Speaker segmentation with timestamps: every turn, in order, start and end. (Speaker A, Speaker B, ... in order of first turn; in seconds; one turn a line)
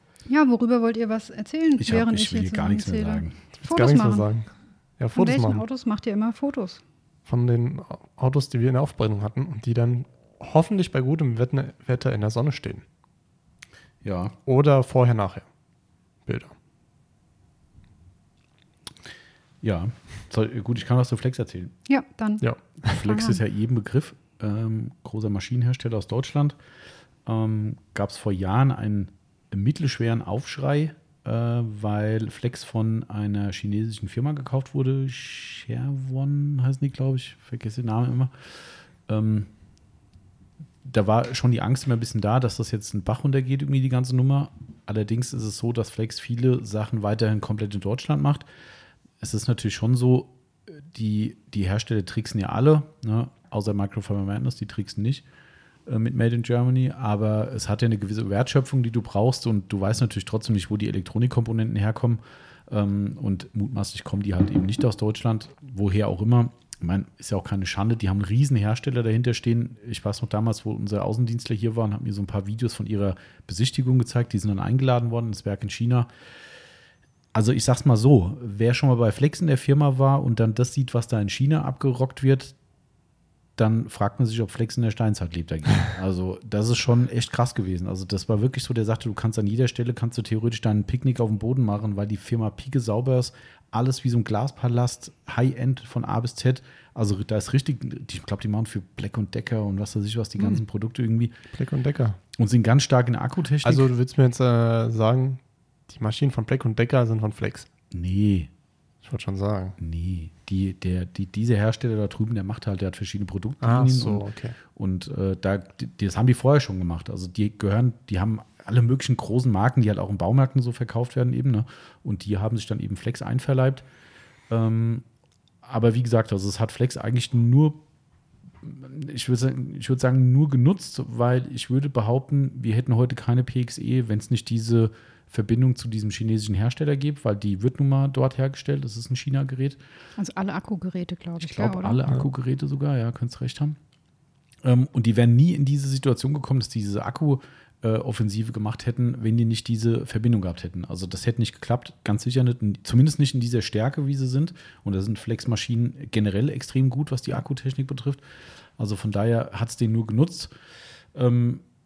Speaker A: 0.3-4.3
Speaker B: 1.8-3.4
Speaker C: 3.6-5.6
Speaker A: 5.2-6.8
Speaker C: 7.3-12.8
Speaker B: 14.0-14.3
Speaker C: 14.5-15.4
Speaker C: 16.3-16.5
Speaker B: 19.6-21.7
Speaker A: 21.9-23.4
Speaker B: 22.8-26.6
Speaker B: 27.3-38.3
Speaker B: 39.1-39.5
Speaker B: 40.8-48.5
Speaker B: 49.2-55.2
Speaker B: 55.9-76.1
Speaker B: 77.3-82.5
Speaker B: 83.6-101.4
Speaker C: 101.5-102.2
Speaker B: 102.4-103.9
Speaker C: 103.6-107.7
Speaker B: 107.9-108.5
Speaker C: 109.0-109.8
Speaker B: 109.8-123.8
Speaker C: 113.6-114.6
Speaker B: 124.5-125.0
Speaker B: 125.6-127.8
Speaker B: 128.6-139.8
Speaker A: 140.2-142.0
Speaker B: 141.4-143.8
Speaker B: 144.6-158.2
Speaker B: 158.8-160.5
Speaker B: 161.2-161.6